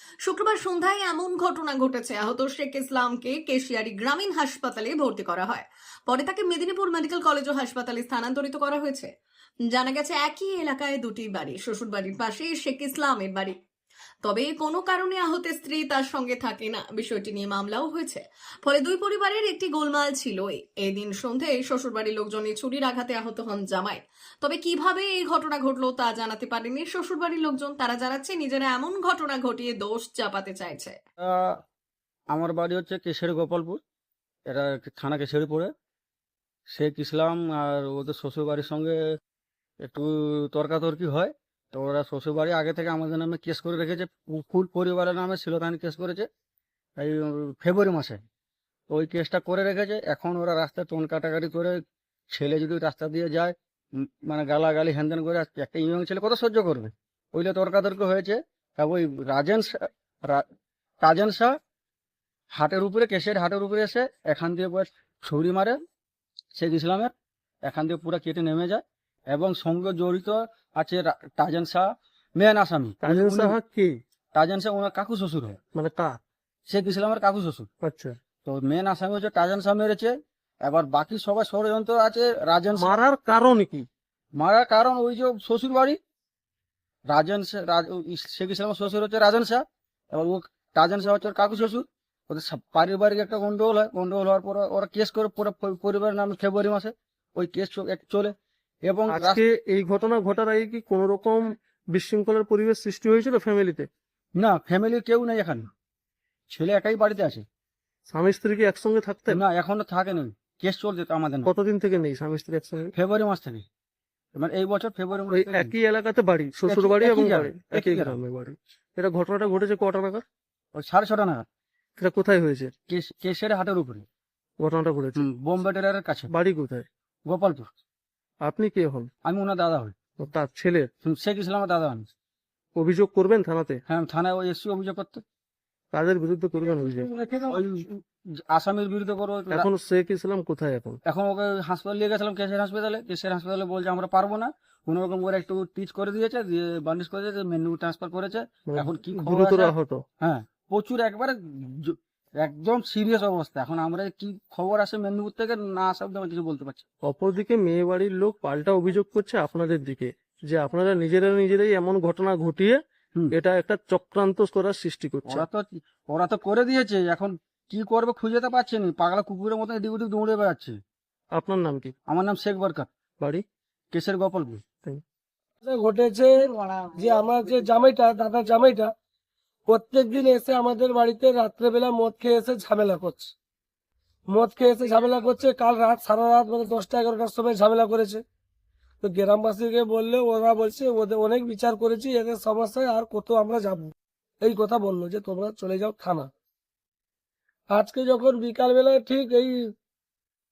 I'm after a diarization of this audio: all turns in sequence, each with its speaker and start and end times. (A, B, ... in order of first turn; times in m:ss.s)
0:00.2-0:09.1 A
0:09.7-0:13.6 A
0:14.2-0:31.0 A
0:31.2-0:31.6 B
0:32.3-0:33.8 B
0:34.5-0:35.7 B
0:36.7-0:39.0 B
0:39.8-0:46.3 B
0:47.0-0:48.2 B
0:48.9-0:51.8 B
0:52.3-1:00.4 B
1:01.0-1:01.6 B
1:02.5-1:05.8 B
1:06.6-1:07.1 B
1:07.6-1:13.6 B
1:13.0-1:13.9 C
1:14.3-1:15.6 B
1:15.7-1:16.2 C
1:16.7-1:17.7 B
1:17.8-1:18.2 C
1:18.4-1:23.0 B
1:22.8-1:23.9 C
1:24.4-1:26.0 B
1:27.1-1:39.4 B
1:39.1-1:43.9 C
1:44.4-1:45.7 B
1:46.5-1:47.4 B
1:48.1-1:49.4 C
1:49.3-1:51.5 B
1:51.4-1:52.9 C
1:52.9-1:53.6 B
1:54.4-1:55.7 B
1:55.3-2:00.2 C
1:56.6-1:58.2 B
2:00.7-2:01.5 B
2:02.0-2:02.7 C
2:02.9-2:04.1 B
2:04.6-2:05.2 C
2:05.2-2:06.3 B
2:06.3-2:06.9 C
2:07.3-2:07.7 B
2:08.4-2:09.1 C
2:09.2-2:09.9 B
2:10.2-2:10.9 C
2:11.0-2:12.1 B
2:12.8-2:13.8 C
2:13.9-2:15.2 B
2:15.9-2:17.1 C
2:17.1-2:17.5 D
2:17.5-2:19.7 B
2:19.5-2:21.0 C
2:21.0-2:36.8 B
2:28.7-2:30.0 C
2:37.0-2:42.8 C
2:43.3-2:45.4 C
2:45.3-2:50.8 B
2:51.3-2:51.9 C
2:52.1-2:52.9 B
2:53.9-2:54.6 B
2:55.6-2:58.9 D
2:59.7-3:03.3 D
3:04.3-3:08.2 D
3:09.0-3:16.3 D
3:17.7-3:19.7 D